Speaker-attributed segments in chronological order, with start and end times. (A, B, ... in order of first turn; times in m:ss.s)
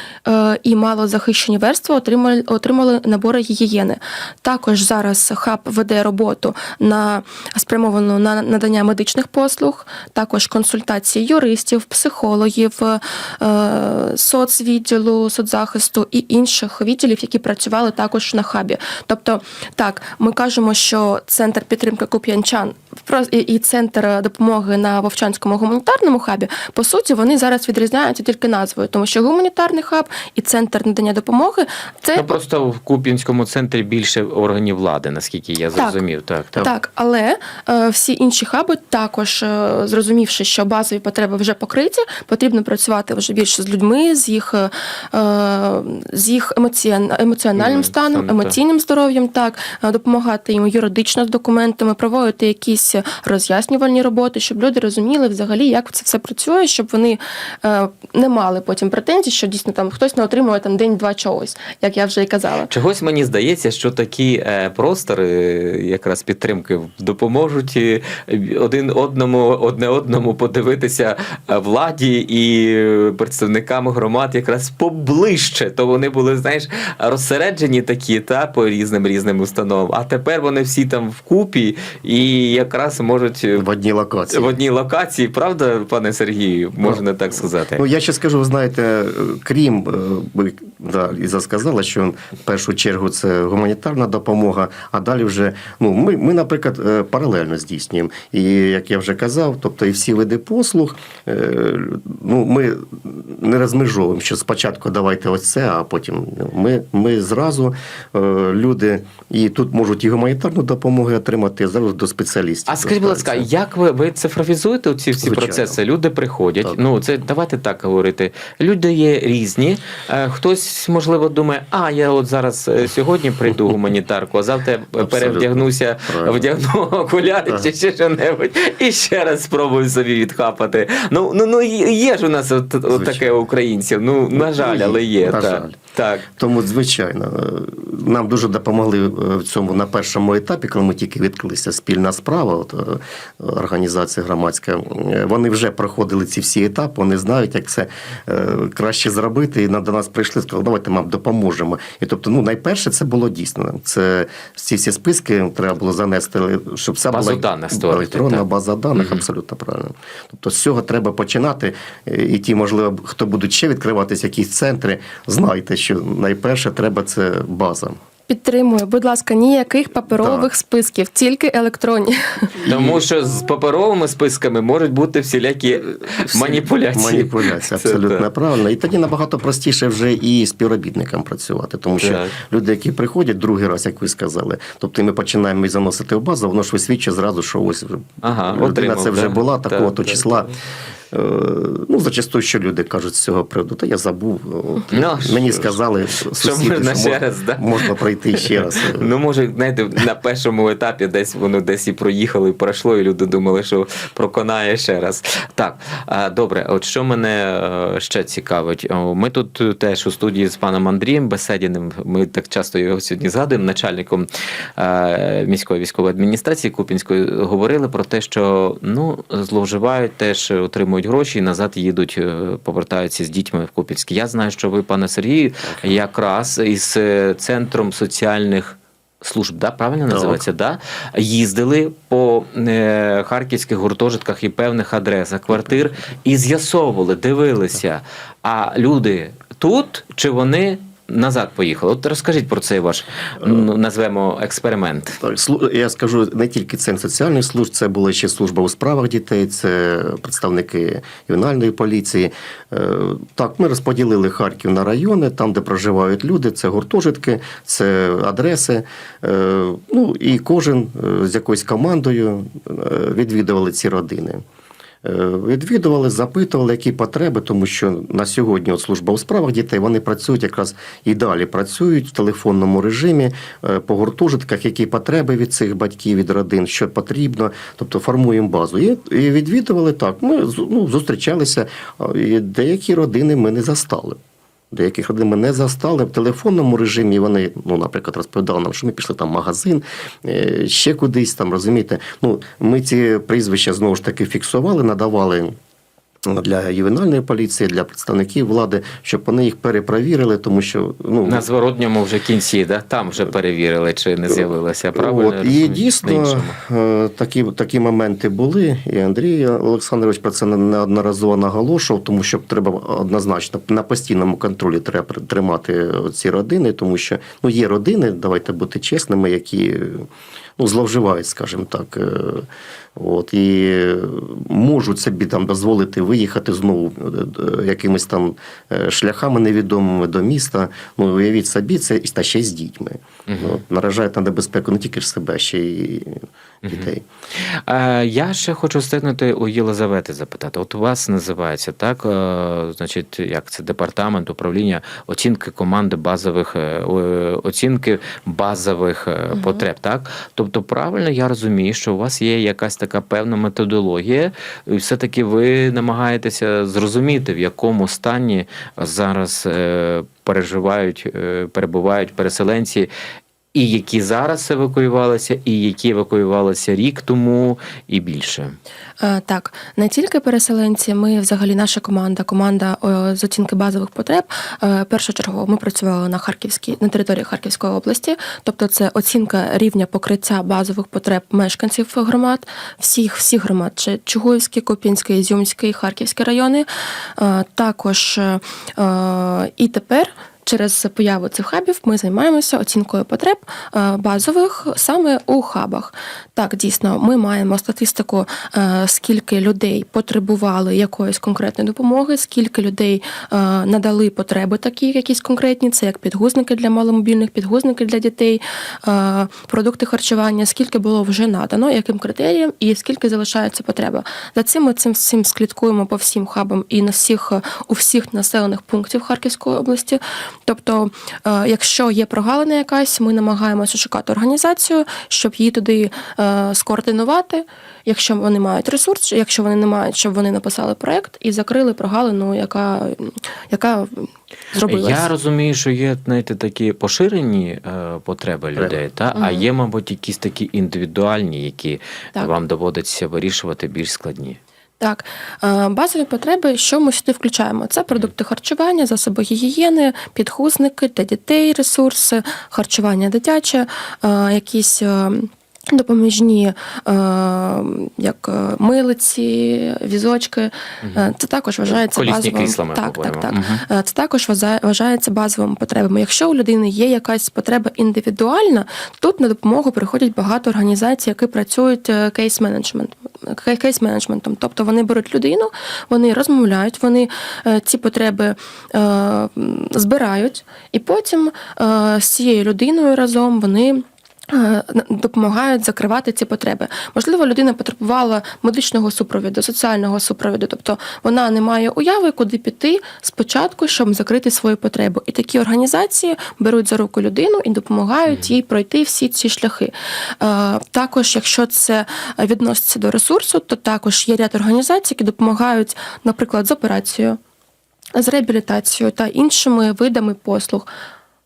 0:00.2-0:32.4 A
0:32.1-0:36.7 B
0:36.6-1:02.7 A
0:47.6-0:48.6 B
1:02.7-1:23.6 B
1:23.6-1:24.5 C
1:24.3-1:27.8 B
1:27.7-1:53.5 C
1:52.7-2:16.3 B
1:55.2-1:55.8 C
2:05.0-2:06.4 C
2:12.9-2:13.5 C
2:14.3-2:15.8 C
2:16.3-2:48.0 C
2:37.1-2:39.2 B
2:48.3-2:52.5 A
2:50.1-2:50.5 C
2:52.6-2:53.0 C
2:52.6-2:58.3 B
2:56.0-3:10.5 C
3:02.0-3:02.3 B
3:08.2-3:10.5 B
3:11.1-3:19.1 C
3:14.9-3:15.8 B
3:16.3-4:05.2 B
3:50.1-3:50.4 C
4:05.2-4:24.4 C
4:25.0-4:44.2 C
4:44.7-4:55.5 C
4:56.2-5:01.4 C
5:01.2-5:06.6 B
5:04.9-5:37.0 C
5:33.3-5:33.6 B
5:36.6-6:02.9 B
5:49.3-5:49.6 A
6:03.5-6:08.6 B
6:09.0-7:15.1 A
7:14.6-7:24.4 B
7:19.1-7:19.4 A
7:24.8-8:27.2 A
7:40.8-7:41.1 B
7:41.9-7:43.6 B
8:27.9-8:30.7 A